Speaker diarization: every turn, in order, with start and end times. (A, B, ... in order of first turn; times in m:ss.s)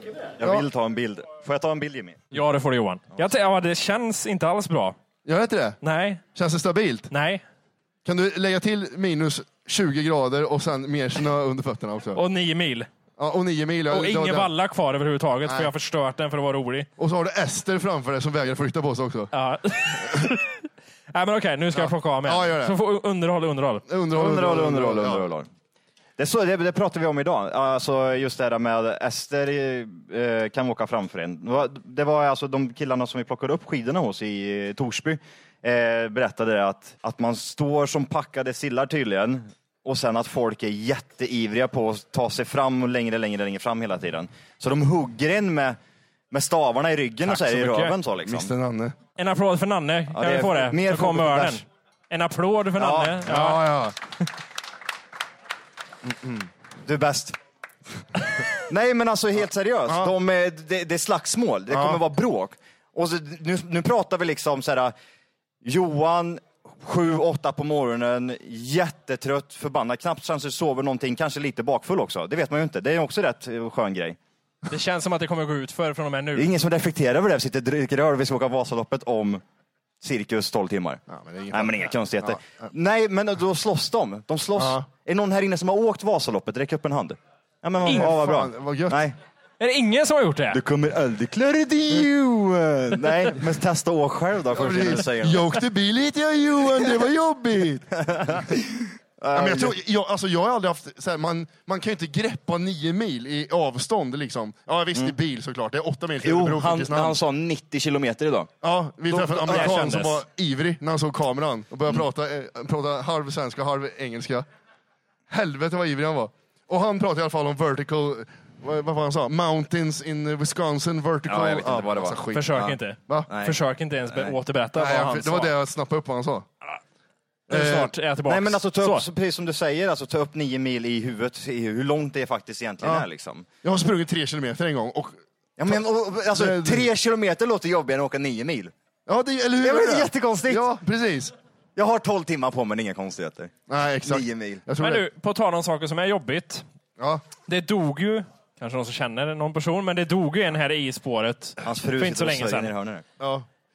0:00.4-0:02.3 A
0:00.4-0:00.6 B
0:02.3-0:05.0 C
0:05.2-0:05.8 B
0:05.8-0:06.2 C
0:06.4-0:07.1 B
0:07.1-0:07.4 C
0:08.0-0:12.2 B
0:12.2-0:12.9 C
0:13.2-0:14.5 B
0:13.9-0:16.9 C
0:15.4-0:15.7 B
0:17.0-0:19.3 B
0:19.3-0:23.8 C
0:21.8-0:22.8 B
0:23.9-0:25.3 B
0:24.1-0:25.5 A
0:26.2-0:45.8 A
0:46.3-0:48.5 A
0:47.3-0:48.0 C
0:48.2-0:49.0 B
0:49.2-0:53.6 C
0:50.1-0:51.6 A
0:52.8-0:53.2 A
0:53.2-0:54.0 B
0:56.0-0:56.5 B
0:56.9-0:57.4 A
0:58.7-1:04.9 A
0:59.9-1:00.1 B
1:01.7-1:02.0 B
1:05.6-1:14.2 A
1:14.7-1:16.5 C
1:16.4-1:19.4 A
1:20.0-1:29.2 A
1:21.1-1:22.7 B
1:24.6-1:24.9 B
1:27.8-1:28.1 C
1:27.9-1:29.0 B
1:29.6-1:30.6 C
1:30.5-1:35.6 A
1:34.5-1:38.6 B
1:37.9-1:39.8 A
1:39.3-1:47.2 B
1:46.2-1:48.5 A
1:48.6-1:54.5 B
1:49.1-1:50.2 C
1:55.3-2:03.3 B
2:01.3-2:02.8 A
2:02.3-2:05.5 C
2:03.3-2:03.6 A
2:04.8-2:06.5 B
2:07.5-2:07.9 B
2:07.5-2:09.0 C
2:08.3-2:13.5 A
2:13.6-2:16.9 B
2:15.6-2:18.7 A
2:19.1-2:21.3 B
2:19.6-2:20.7 A
2:21.8-2:24.6 A
2:23.7-2:25.0 B
2:24.8-2:26.6 C
2:27.0-2:27.2 B
2:27.5-2:32.7 C
2:31.6-2:33.0 A
2:33.2-2:33.5 B